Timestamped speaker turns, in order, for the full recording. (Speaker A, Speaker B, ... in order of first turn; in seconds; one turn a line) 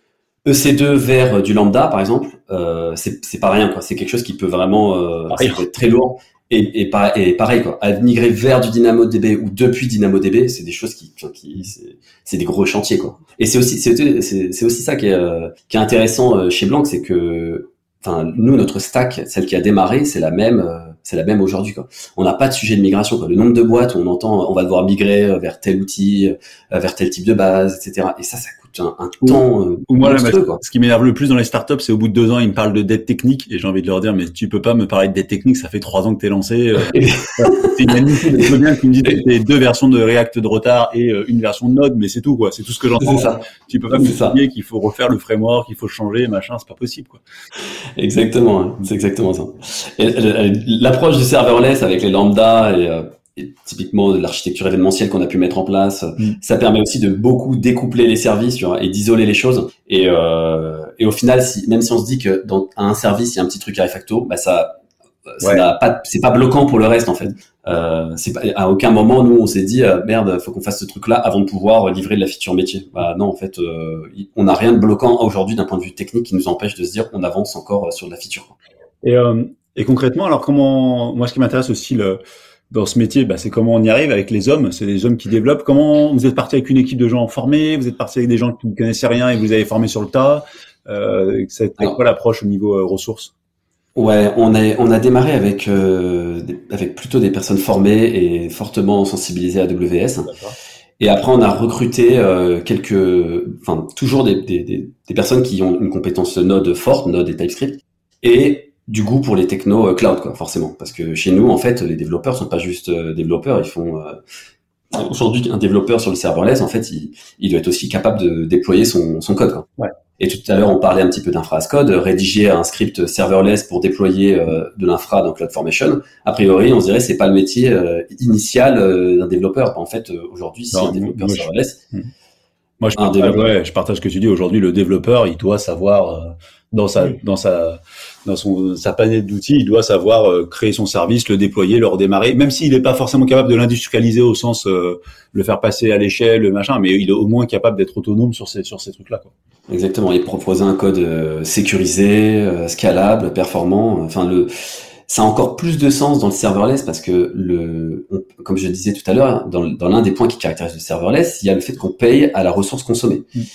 Speaker A: 0.4-30.6
Speaker B: 5.3-5.6
Speaker B: 29.2-47.2
Speaker A: 36.9-37.7
Speaker A: 43.0-44.4
Speaker A: 48.0-64.8
Speaker A: 65.3-78.5
Speaker B: 79.0-93.3
Speaker A: 94.0-100.3
Speaker B: 100.3-100.5
Speaker A: 101.0-114.2
Speaker A: 114.9-119.7
Speaker A: 120.2-131.8
Speaker B: 130.7-132.1
Speaker B: 132.8-149.3
Speaker A: 133.0-133.5
Speaker A: 149.7-163.3